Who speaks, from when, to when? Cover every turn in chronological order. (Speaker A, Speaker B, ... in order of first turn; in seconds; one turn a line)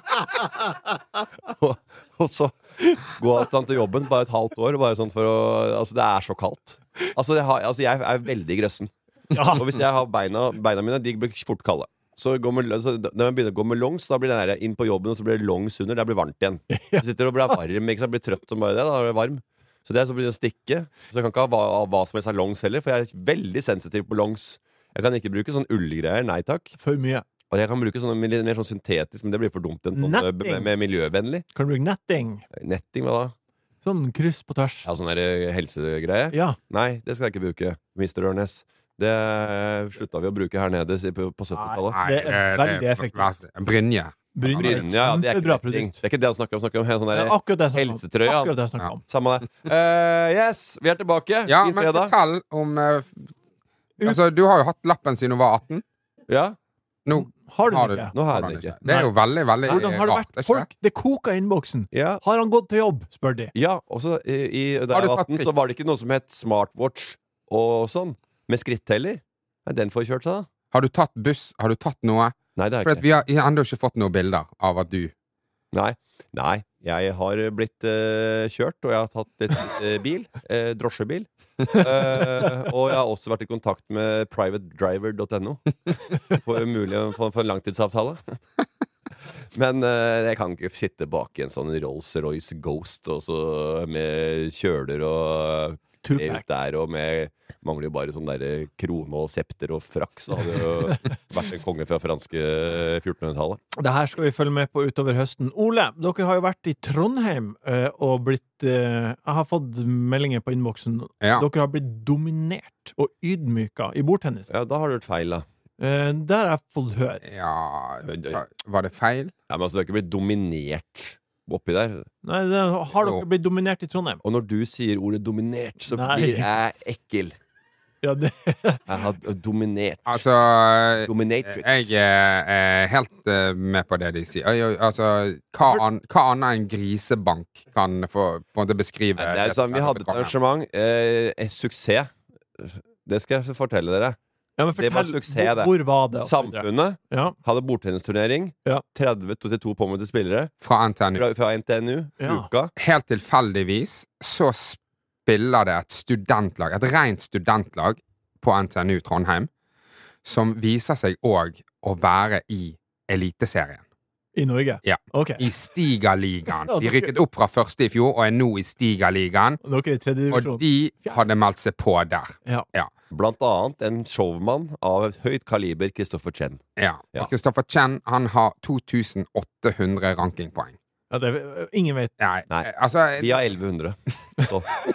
Speaker A: 1.4-26.7
Speaker B: 9.3-9.6
Speaker B: 16.7-17.0
Speaker B: 26.8-27.2
Speaker A: 27.5-31.4
Speaker B: 29.9-30.7
Speaker B: 31.5-32.4
Speaker A: 32.5-33.3
Speaker B: 33.8-34.9
Speaker A: 34.8-42.0
Speaker B: 36.3-36.6
Speaker B: 41.6-43.3
Speaker C: 41.9-44.8
Speaker B: 44.3-46.0
Speaker A: 44.6-48.5
Speaker B: 47.1-49.0
Speaker A: 49.1-52.1
Speaker C: 51.5-53.2
Speaker C: 54.0-55.8
Speaker A: 56.3-56.5
Speaker C: 57.0-60.7
Speaker B: 57.1-58.1
Speaker A: 58.1-58.8
Speaker B: 59.6-63.5
Speaker A: 61.9-62.2
Speaker A: 63.5-70.5
Speaker C: 64.9-65.5
Speaker C: 70.7-75.1
Speaker A: 72.5-73.0
Speaker A: 75.7-85.7
Speaker A: 86.3-88.4
Speaker A: 89.5-103.6
Speaker B: 96.0-96.4
Speaker B: 103.8-114.5
Speaker C: 111.2-111.5
Speaker A: 114.5-115.4
Speaker B: 115.8-117.2
Speaker C: 117.2-119.3
Speaker A: 118.0-118.4
Speaker A: 119.5-122.1
Speaker B: 122.2-124.2
Speaker C: 122.9-123.2
Speaker A: 124.2-127.3
Speaker B: 125.9-126.5
Speaker B: 128.0-128.8
Speaker A: 128.9-130.2
Speaker C: 130.1-140.3
Speaker A: 131.1-131.9
Speaker A: 139.2-144.2
Speaker B: 144.6-147.3
Speaker A: 144.8-150.5
Speaker C: 150.6-151.2
Speaker A: 151.1-152.7
Speaker B: 152.2-152.5
Speaker C: 152.8-159.5
Speaker C: 160.2-163.8
Speaker B: 164.3-165.5
Speaker C: 164.8-169.6
Speaker B: 166.6-167.1
Speaker B: 169.6-171.2
Speaker C: 170.3-172.9
Speaker A: 173.1-176.6
Speaker C: 176.8-180.8
Speaker B: 181.1-182.1
Speaker C: 182.2-183.4
Speaker A: 182.5-184.7